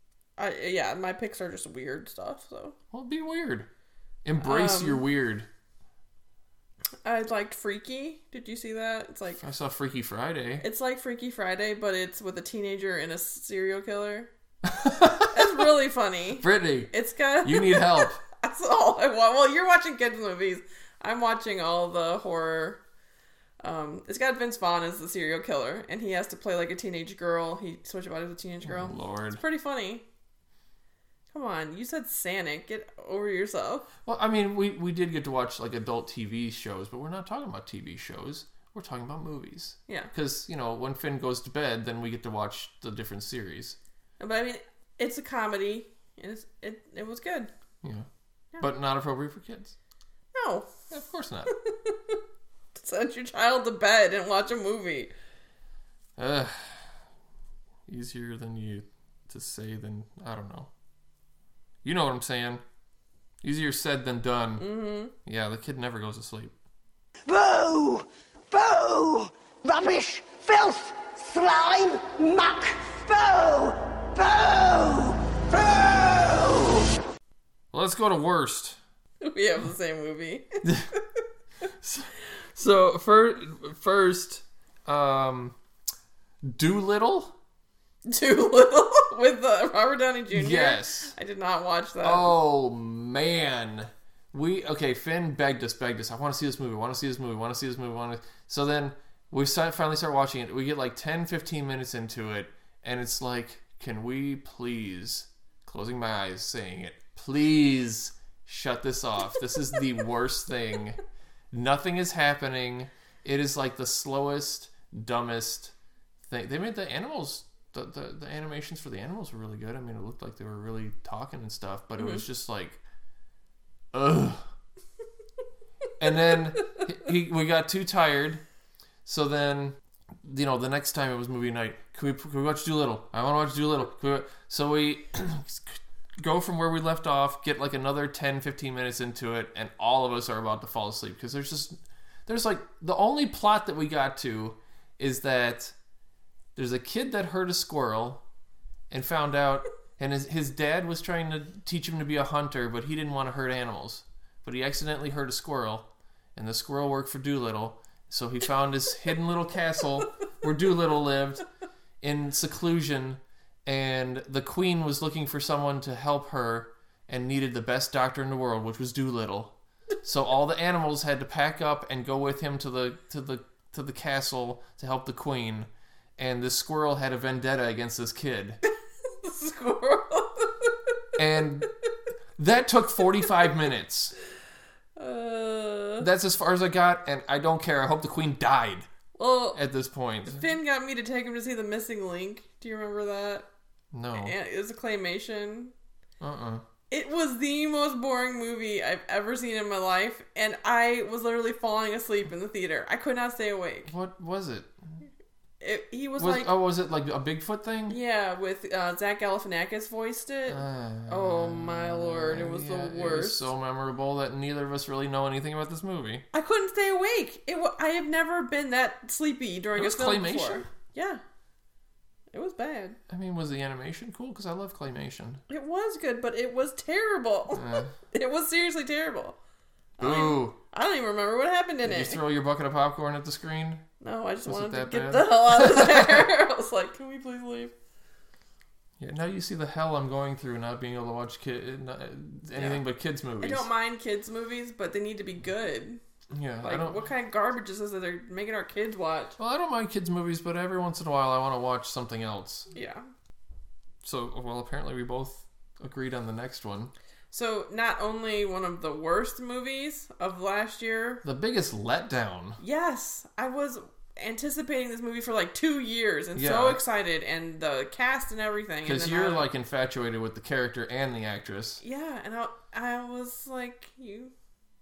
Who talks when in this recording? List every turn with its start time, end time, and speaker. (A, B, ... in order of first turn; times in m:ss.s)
0:00.4-0:02.8 A
0:02.9-0:03.7 B
0:04.2-0:05.5 B
0:04.4-0:05.0 A
0:07.0-0:09.4 A
0:09.4-0:10.6 B
0:10.6-0:14.3 A
0:14.6-0:15.5 B
0:15.3-0:22.8 A
0:16.4-0:18.2 B
0:23.6-0:30.0 A
0:28.6-0:29.4 B
0:31.3-0:33.9 A
0:34.0-0:43.8 B
0:44.2-0:47.5 A
0:47.8-0:48.1 B
0:48.6-0:49.8 B
0:50.3-0:50.7 A
0:50.9-0:51.6 B
0:51.5-0:52.2 A
0:52.8-0:55.1 A
0:56.2-0:56.9 B
0:57.9-1:00.7 B
1:01.8-1:02.6 B
1:03.4-1:04.7 B
1:04.6-1:05.1 A
1:05.2-1:06.5 B
1:07.2-1:16.9 C
1:17.7-1:18.8 B
1:19.2-1:21.0 A
1:20.6-1:20.9 B
1:21.8-1:25.6 B
1:26.4-1:27.3 B
1:28.0-1:32.3 A
1:30.3-1:31.1 B
1:32.0-1:51.0 B
1:51.5-1:55.7 B
1:56.2-2:02.8 B
2:02.0-2:02.2 A
2:03.9-2:04.5 B
2:06.0-2:08.4 B
2:09.0-2:21.8 B
2:22.2-2:25.8 B
2:26.6-2:28.2 B
2:28.9-2:41.4 B
2:42.0-2:58.6 B
2:59.0-3:01.0 A
3:01.2-3:01.7 B
3:02.4-3:04.2 B
3:05.0-3:06.1 A
3:06.0-3:08.9 B
3:09.1-3:09.6 A
3:09.5-3:10.4 B
3:10.2-3:13.5 A
3:13.9-3:14.3 B
3:14.1-3:15.7 A
3:16.2-3:16.6 B
3:16.9-3:23.9 A
3:23.9-3:25.0 B
3:25.6-3:26.5 A
3:26.2-3:28.0 B
3:27.9-3:33.5 A
3:30.5-3:36.2 B
3:36.3-3:41.2 A
3:39.8-3:40.7 B
3:42.3-3:43.0 A
3:43.1-3:45.4 B
3:45.5-3:49.4 A
3:47.5-3:47.9 B
3:50.0-3:52.2 A
3:50.0-3:50.6 B
3:51.8-3:53.8 B
3:54.0-3:57.7 A
3:54.4-3:56.2 B
3:59.0-4:03.6 B
4:02.5-4:02.8 A
4:03.4-4:06.0 A
4:06.3-4:07.0 B
4:06.6-4:09.4 A
4:09.4-4:12.7 B
4:12.7-4:13.0 A
4:14.0-4:16.9 B
4:17.3-4:21.2 A
4:21.2-4:22.6 B
4:22.6-4:29.5 A
4:26.4-4:26.8 B
4:28.8-4:31.8 B
4:31.8-4:34.3 A